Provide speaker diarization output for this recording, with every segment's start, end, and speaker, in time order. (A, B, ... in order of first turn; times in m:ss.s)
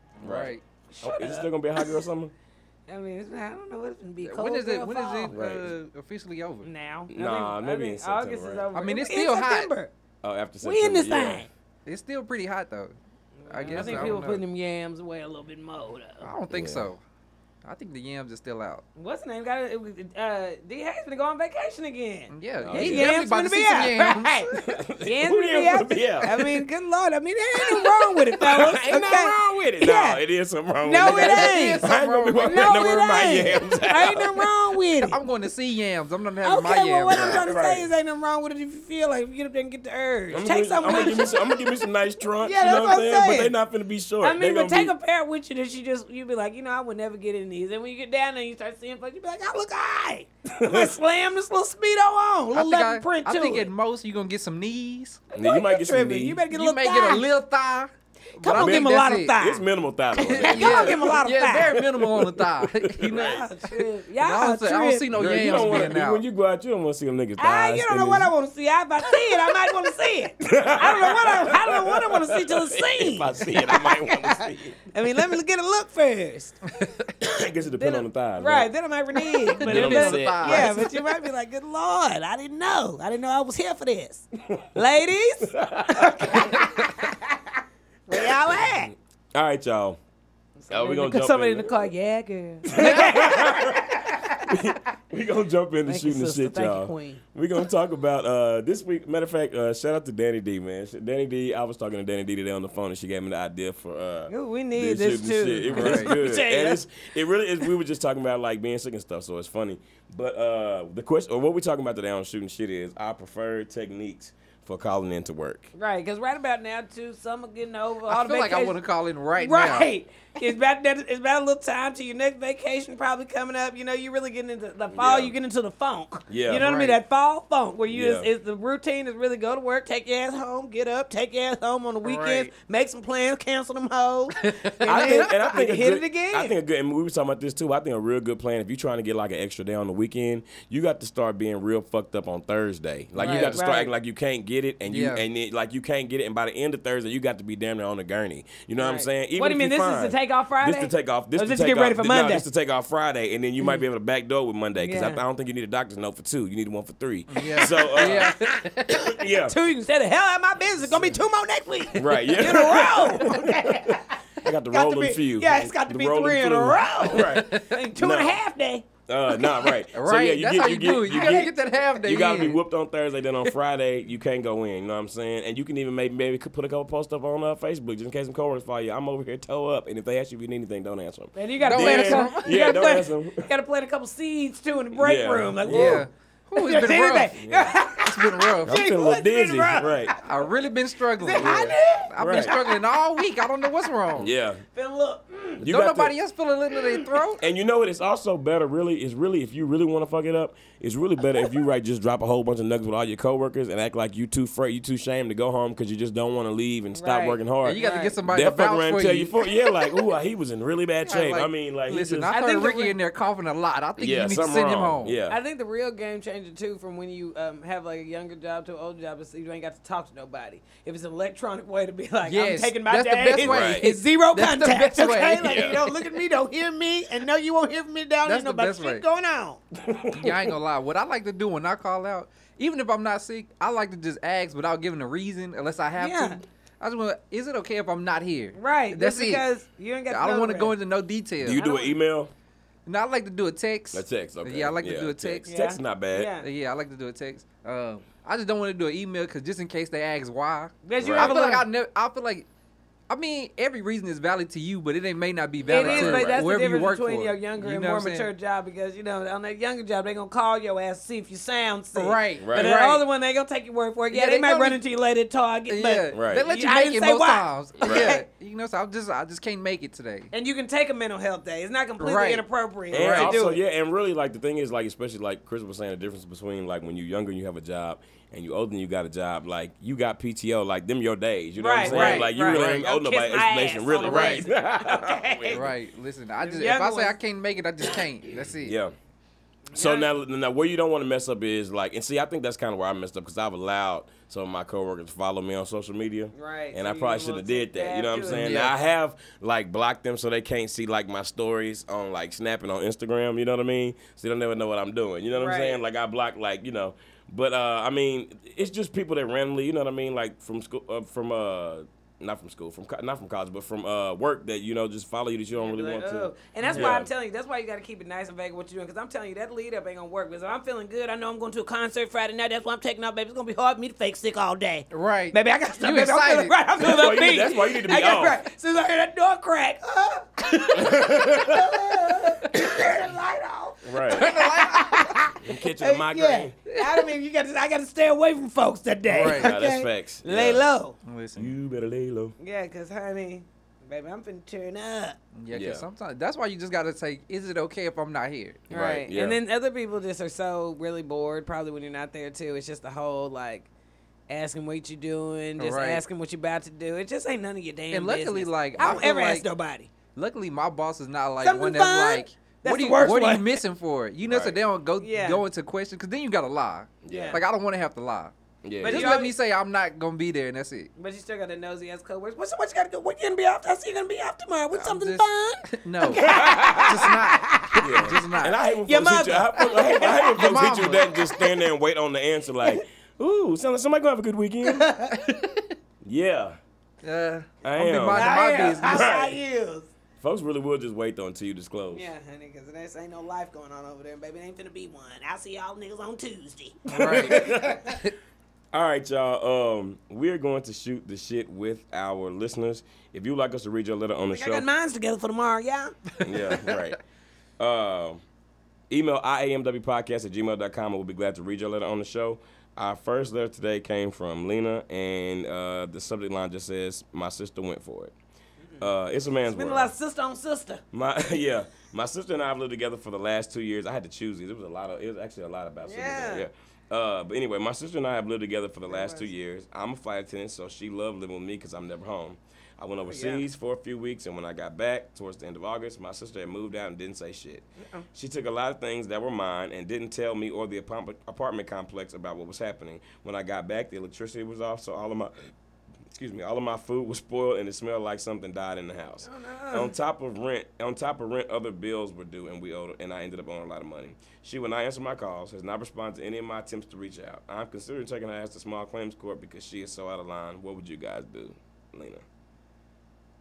0:00.2-0:00.6 A
0:00.2-0:02.3 B
0:00.9-0:02.0 C
0:02.9-0:05.4 C
0:04.2-0:06.7 A
0:05.3-0:05.7 B
0:06.6-0:09.9 C
0:07.1-0:08.7 B
0:08.8-0:09.7 A
0:10.2-0:11.5 B
0:10.6-0:11.5 C
0:11.9-0:13.0 A
0:13.4-0:16.3 C
0:13.5-0:14.4 A
0:13.7-0:14.2 B
0:16.2-0:17.0 A
0:16.5-0:16.9 B
0:17.6-0:18.8 A
0:19.0-0:30.2 C
0:22.3-0:24.5 A
0:22.6-0:23.2 B
0:24.5-0:26.6 B
0:27.6-0:34.5 B
0:30.8-0:31.8 C
0:31.0-0:32.9 A
0:32.4-0:35.2 C
0:35.0-0:37.5 A
0:36.4-0:41.8 C
0:37.1-0:37.9 B
0:40.3-0:44.9 B
0:42.4-0:43.5 C
0:44.2-0:53.7 C
0:50.6-0:51.0 B
0:52.5-0:55.2 A
0:55.3-0:56.4 B
0:55.4-0:57.3 C
0:56.5-0:59.3 A
0:58.4-0:59.6 C
0:58.5-1:03.5 B
1:00.2-1:01.8 C
1:00.2-1:03.1 A
1:03.0-1:05.8 C
1:04.2-1:06.2 A
1:05.1-1:08.3 B
1:07.4-1:16.6 C
1:10.4-1:14.8 B
1:16.8-1:17.1 A
1:17.2-1:18.7 B
1:17.8-1:27.4 C
1:19.5-1:21.0 B
1:19.6-1:20.8 A
1:25.4-1:26.7 B
1:28.1-1:28.9 C
1:28.1-1:30.0 B
1:30.6-1:34.5 C
1:30.7-1:31.9 B
1:32.7-1:55.7 B
1:35.9-1:37.2 C
1:44.3-1:46.8 C
1:45.7-1:46.1 A
1:55.8-1:58.8 C
1:58.1-1:59.9 A
1:59.4-2:16.6 C
2:04.9-2:05.3 B
2:06.3-2:06.7 B
2:06.5-2:07.0 A
2:07.9-2:08.3 B
2:12.0-2:12.5 A
2:14.4-2:15.3 A
2:14.8-2:38.3 B
2:23.2-2:23.6 A
2:23.2-2:23.9 C
2:24.9-2:25.2 A
2:28.8-2:32.4 C
2:34.8-2:35.2 C
2:37.3-2:39.1 A
2:37.6-2:49.7 C
2:39.0-2:39.6 B
2:42.0-2:48.4 B
2:47.2-2:47.8 A
2:49.1-3:03.5 B
2:49.9-2:52.6 A
2:51.1-2:51.5 C
3:01.4-3:10.4 C
3:01.6-3:02.6 A
3:05.0-3:06.0 B
3:05.7-3:07.4 A
3:07.4-3:07.8 B
3:07.9-3:08.8 A
3:08.7-3:10.2 B
3:10.2-3:14.3 A
3:11.2-3:12.8 C
3:11.4-3:12.6 B
3:14.2-3:14.6 B
3:14.8-3:15.7 C
3:15.6-3:16.1 B
3:15.6-3:17.4 A
3:17.4-3:32.3 B
3:27.0-3:28.2 C
3:27.6-3:29.4 A
3:31.1-3:35.1 A
3:32.3-3:33.0 C
3:34.0-3:35.4 B
3:35.3-3:49.6 C
3:42.2-3:46.2 A
3:43.4-3:43.8 B
3:45.4-3:45.8 B
3:48.2-3:49.0 A
3:49.8-3:50.5 B
3:50.1-3:59.4 A
3:56.0-3:56.4 C
3:58.6-4:00.7 C
4:00.1-4:01.6 A
4:01.4-4:02.3 B
4:01.6-4:02.0 C
4:02.9-4:05.5 A
4:03.9-4:06.3 B
4:05.5-4:06.5 C
4:06.4-4:12.5 A
4:10.8-4:11.7 C
4:11.0-4:11.4 B
4:13.1-4:18.3 A
4:15.7-4:16.4 B
4:15.7-4:28.2 C
4:22.0-4:23.0 A
4:22.4-4:22.8 B
4:24.1-4:24.8 A
4:25.7-4:30.3 A
4:26.1-4:26.5 B
4:27.8-4:28.2 B
4:30.3-4:33.6 C
4:32.0-4:33.4 A
4:32.9-4:45.7 B
4:41.6-4:45.7 C
4:41.8-4:42.8 A
4:44.0-4:44.5 A
4:45.5-4:48.8 A
4:46.4-4:47.2 C
4:48.5-4:49.0 B
4:49.7-4:50.1 C
4:49.8-5:17.1 B
4:56.3-4:58.6 C
4:58.3-4:58.7 A
5:05.4-5:05.8 C
5:15.6-5:41.0 C
5:16.6-5:16.9 A
5:24.9-5:26.6 A
5:26.8-5:28.4 B
5:30.7-5:32.0 B
5:33.8-5:34.3 B
5:34.1-5:35.0 A
5:35.4-5:36.6 B
5:36.7-5:37.0 A
5:39.1-5:39.5 A
5:39.3-5:40.6 B
5:41.0-5:41.5 A
5:41.4-5:42.3 B
5:42.4-5:45.2 C
5:45.4-5:48.6 A
5:45.5-5:45.8 B
5:48.7-5:49.4 B
5:48.7-5:53.7 C
5:54.3-5:59.9 C
5:55.6-5:56.0 A
5:57.9-5:59.5 A
5:58.8-5:59.1 B
6:00.2-6:10.9 A
6:01.4-6:03.6 C
6:04.2-6:04.6 B
6:05.0-6:05.4 C
6:07.0-6:07.4 B
6:07.1-6:07.4 C
6:08.6-6:09.2 B
6:08.8-6:09.3 C
6:11.0-6:17.9 C
6:14.7-6:18.6 A
6:16.2-6:17.2 B
6:17.8-6:24.9 B
6:18.8-6:21.5 C
6:20.4-6:21.1 A
6:24.6-6:25.3 C
6:25.1-6:25.7 A
6:26.0-6:26.6 B
6:27.0-6:29.1 A
6:27.6-6:29.4 B
6:28.1-6:29.9 C
6:30.2-6:32.1 B
6:31.9-6:37.9 C
6:36.9-6:38.0 B
6:36.9-6:38.1 A
6:38.7-6:44.7 B
6:44.3-6:46.1 C
6:46.2-6:47.0 B
6:47.6-6:48.2 B
6:48.9-6:58.1 B
6:58.8-6:59.9 B
6:59.5-7:00.8 C
7:00.9-7:25.3 B
7:05.8-7:06.5 C
7:08.9-7:09.3 C
7:13.1-7:13.4 C
7:17.8-7:18.1 C
7:26.1-7:42.2 B
7:29.3-7:30.0 C